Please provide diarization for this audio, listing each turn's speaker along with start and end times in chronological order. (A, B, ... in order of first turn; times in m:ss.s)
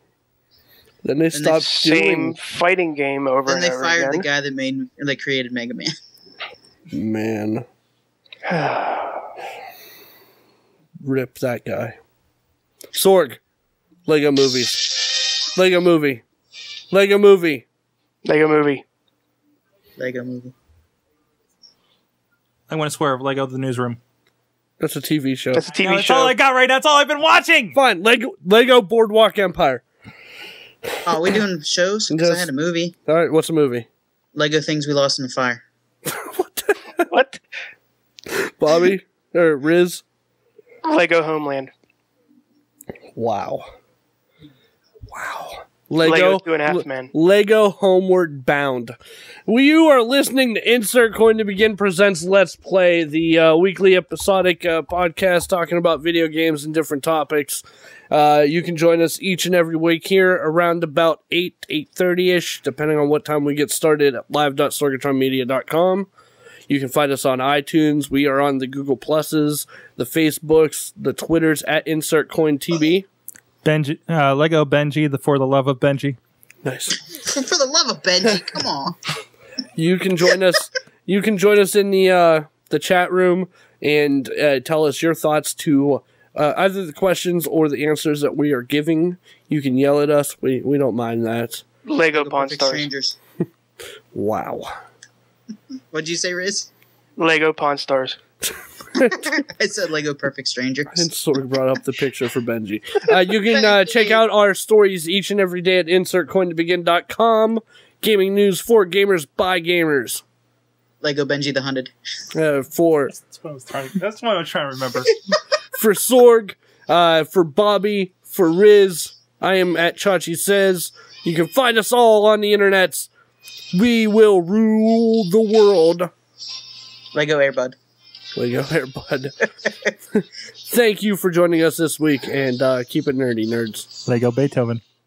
0:01.0-0:02.4 A
0:01.3-0:01.6 B
0:01.6-0:04.3 C
0:03.4-0:05.9 B
0:06.9-0:07.6 A
0:08.4-0:09.3 C
0:11.0-0:12.0 A
0:12.9-0:13.4 A
0:14.0-0:16.2 A
0:16.9-0:17.6 A
0:18.2-0:18.8 C
0:20.0-0:20.5 B
0:22.7-0:24.0 D
0:24.8-0:25.6 A
0:25.5-0:26.3 C
0:25.7-0:27.8 D
0:27.7-0:29.8 A
0:30.8-0:31.4 A
0:31.0-0:32.9 B
0:32.1-0:32.5 A
0:33.1-0:33.9 A
0:34.3-0:35.6 B
0:36.0-0:37.1 A
0:38.3-0:40.0 A
0:40.8-0:41.7 C
0:43.1-0:43.7 A
0:45.1-1:06.1 A
0:46.0-0:47.1 C
1:06.7-1:13.1 A
1:13.6-1:16.2 D
1:16.6-1:17.0 A
1:17.1-1:19.0 B
1:19.8-1:31.6 A
1:31.8-1:32.9 C
1:32.1-1:33.2 B
1:34.1-1:34.7 A
1:35.9-1:36.7 B
1:37.2-1:38.2 C
1:38.4-1:39.3 A
1:39.0-1:41.1 B
1:40.9-1:50.2 A
1:43.3-1:44.2 B
1:51.0-1:51.9 B
1:52.3-1:53.1 A
1:53.2-1:55.2 D
1:55.7-2:03.1 A
2:03.7-2:06.1 A
2:07.1-2:07.8 B
2:08.4-2:09.4 A
2:10.1-2:13.9 A
2:14.0-2:14.8 D